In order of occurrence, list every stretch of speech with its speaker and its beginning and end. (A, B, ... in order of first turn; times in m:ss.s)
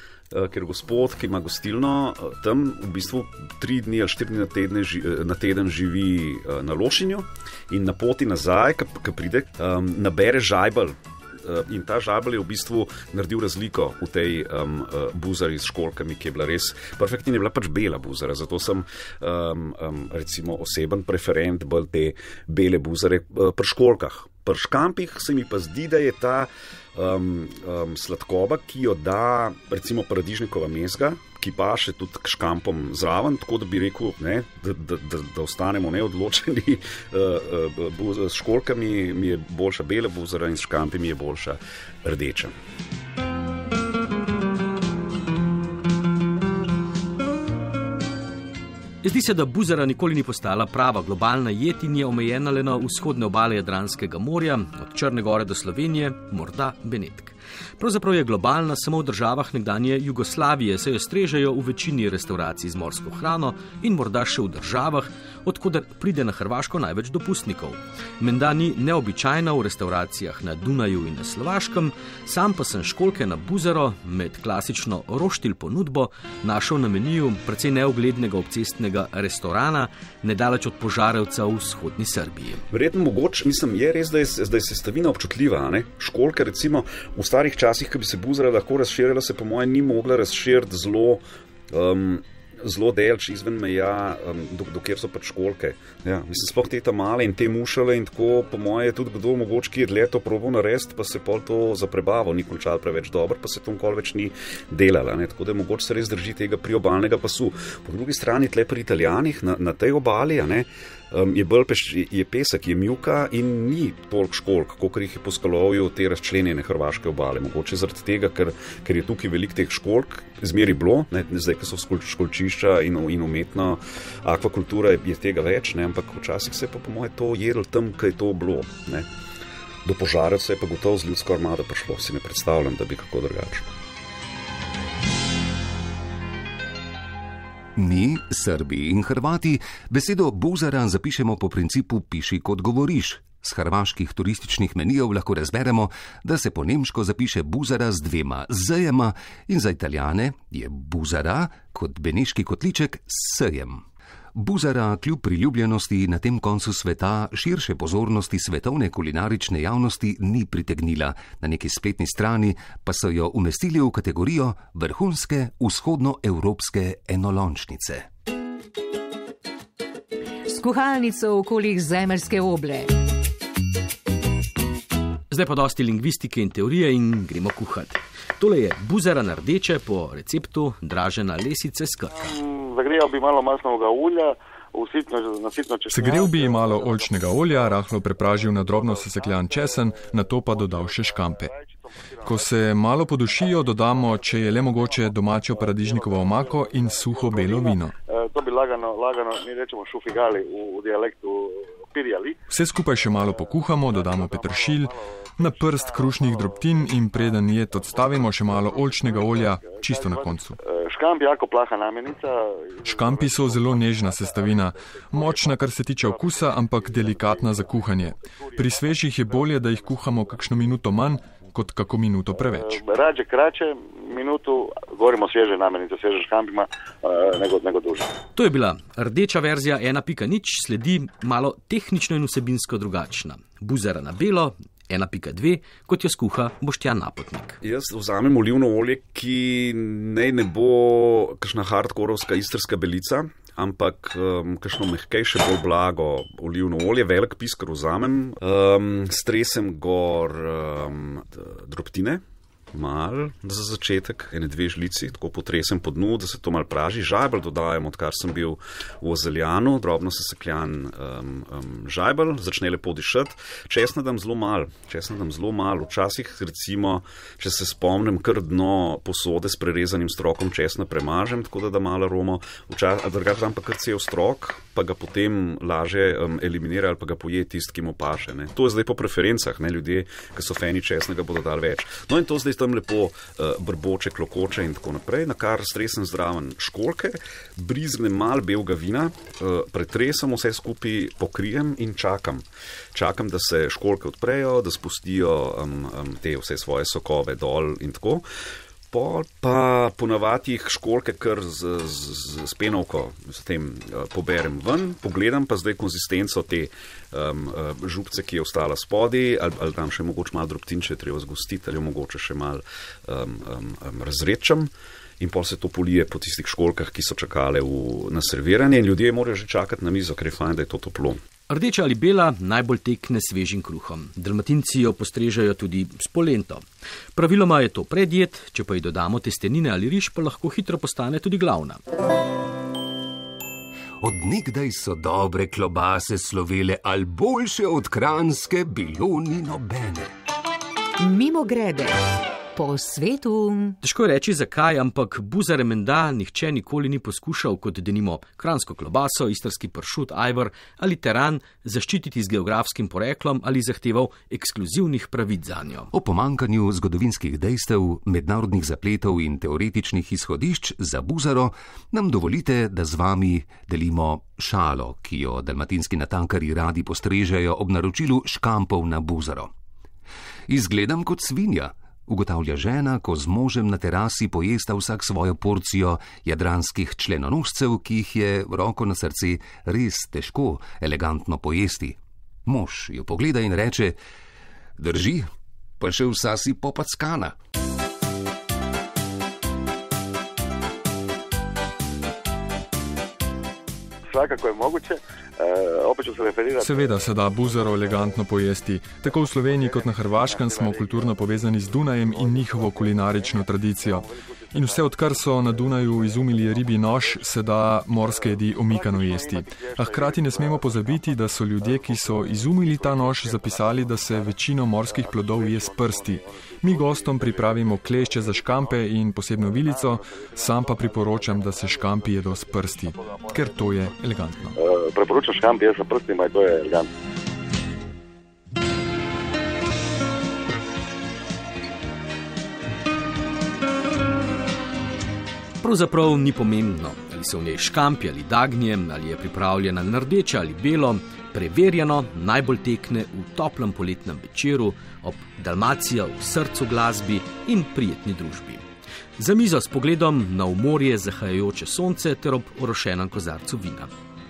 0:00.3-0:42.5 A
0:49.0-1:22.6 B
1:22.7-2:09.1 A
2:09.8-2:13.7 A
2:17.8-2:33.8 C
2:34.4-2:48.1 C
2:50.5-2:52.9 D
2:55.3-3:02.4 B
3:02.2-3:12.5 E
3:05.9-3:11.5 F
3:12.2-3:17.9 F
3:13.3-3:22.4 E
3:22.5-3:30.6 F
3:23.3-3:40.7 E
3:32.8-3:42.8 F
3:42.4-3:48.1 E
3:48.4-3:57.6 B
3:57.6-4:58.3 A
4:58.9-5:21.2 A
5:21.5-5:26.6 B
5:27.2-5:31.8 B
5:34.0-5:40.1 C
5:41.0-5:42.0 D
5:42.6-5:43.8 D
5:43.8-5:55.9 B
5:55.9-6:09.5 C
6:10.5-6:24.0 C
6:24.8-6:27.4 C
6:34.1-6:38.2 E
6:36.6-7:04.6 F
6:39.1-7:06.9 E
7:15.6-7:28.6 B
7:29.2-7:33.9 B